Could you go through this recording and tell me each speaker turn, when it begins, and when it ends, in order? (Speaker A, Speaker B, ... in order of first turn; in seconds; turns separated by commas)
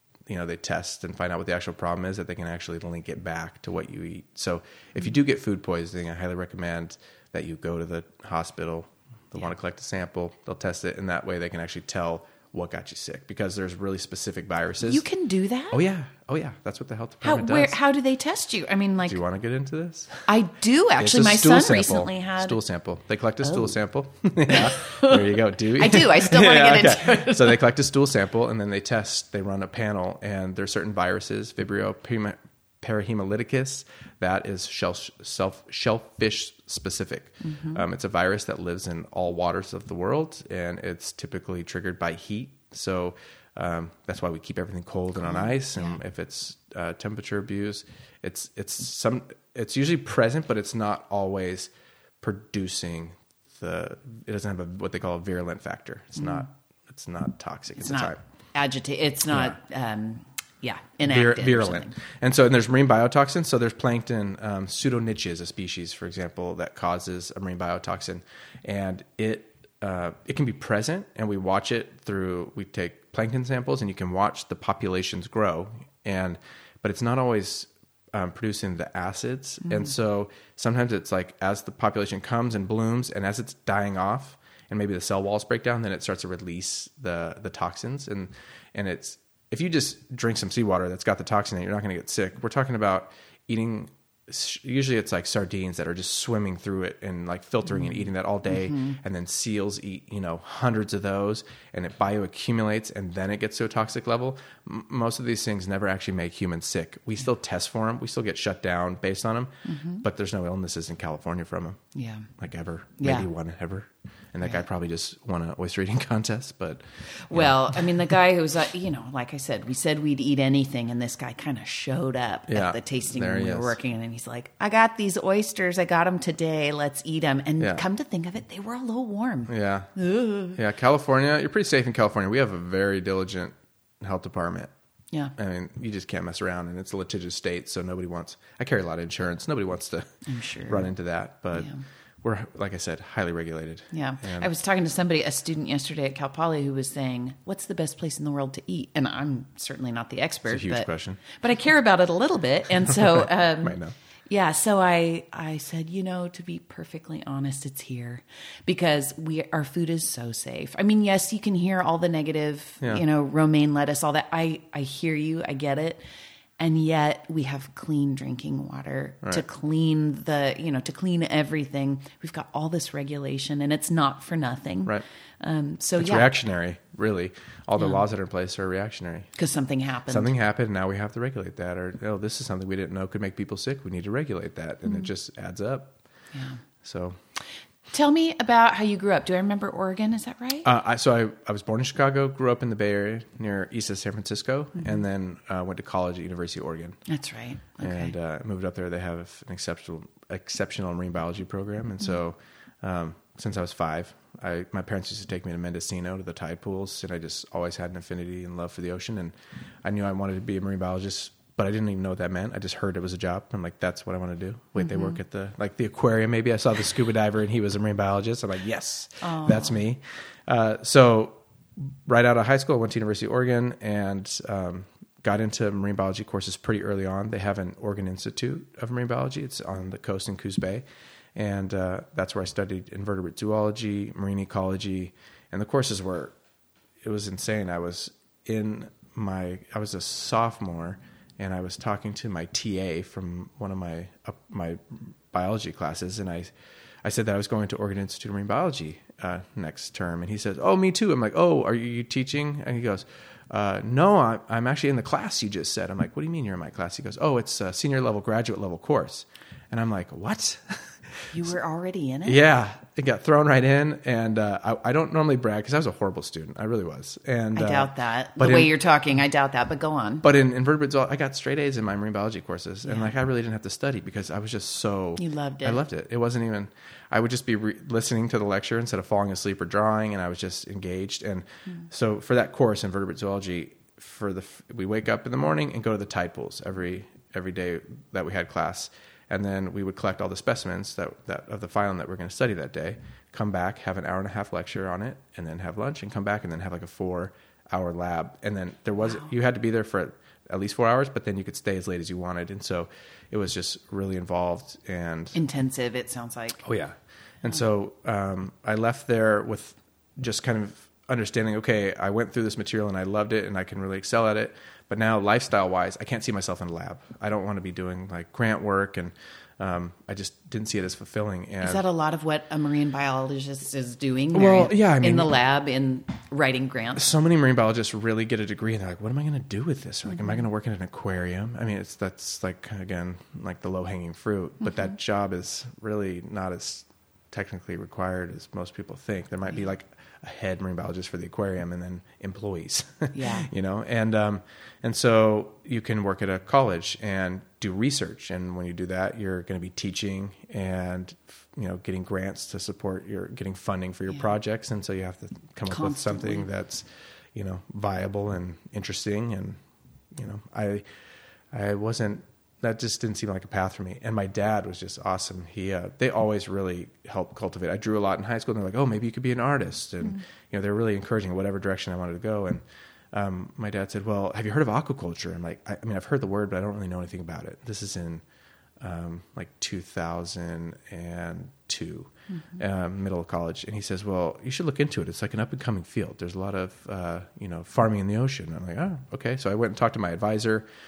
Speaker A: 0.3-15.0, Speaker B: 14.8-15.8, Speaker A: 15.7-17.8, Speaker B: 17.2-19.2, Speaker A: 19.1-20.3, Speaker B: 20.3-22.6, Speaker A: 21.0-58.2, Speaker B: 23.4-23.7, Speaker B: 24.5-27.6, Speaker B: 37.4-37.8, Speaker B: 45.2-46.0, Speaker B: 56.2-56.5, Speaker B: 57.8-62.0, Speaker A: 59.3-59.6, Speaker A: 61.1-111.8, Speaker B: 79.6-79.9, Speaker B: 98.5-99.0, Speaker B: 109.7-110.0, Speaker B: 112.0-112.3, Speaker A: 112.4-118.1, Speaker B: 113.0-113.3, Speaker B: 117.2-130.6, Speaker A: 122.5-123.8, Speaker A: 127.6-127.8, Speaker A: 129.5-129.9, Speaker A: 130.6-134.7, Speaker A: 135.4-141.7, Speaker B: 140.3-140.9, Speaker B: 141.5-141.8, Speaker A: 142.2-144.5, Speaker B: 143.9-166.0, Speaker A: 150.5-151.2, Speaker A: 152.9-153.9, Speaker B: 166.6-176.3, Speaker A: 176.0-179.3, Speaker B: 177.8-178.0, Speaker B: 179.4-180.3, Speaker A: 180.1-185.9, Speaker B: 186.3-186.6, Speaker A: 186.8-187.2, Speaker B: 187.9-190.7, Speaker A: 190.7-197.0, Speaker B: 197.1-198.1, Speaker A: 197.8-230.8, Speaker B: 214.8-215.2, Speaker B: 219.2-219.8, Speaker A: 231.3-236.4, Speaker A: 237.0-246.5, Speaker A: 247.0-261.5, Speaker B: 261.3-262.4, Speaker A: 262.3-268.7, Speaker B: 267.6-270.2, Speaker A: 270.2-305.4, Speaker B: 272.9-273.1, Speaker B: 275.2-275.8, Speaker B: 305.3-306.6, Speaker A: 306.6-321.8, Speaker B: 321.6-327.1, Speaker A: 324.3-325.4, Speaker A: 327.0-359.6, Speaker B: 343.1-343.5, Speaker B: 355.7-356.5, Speaker A: 360.1-360.9, Speaker A: 361.5-378.2, Speaker A: 378.8-390.7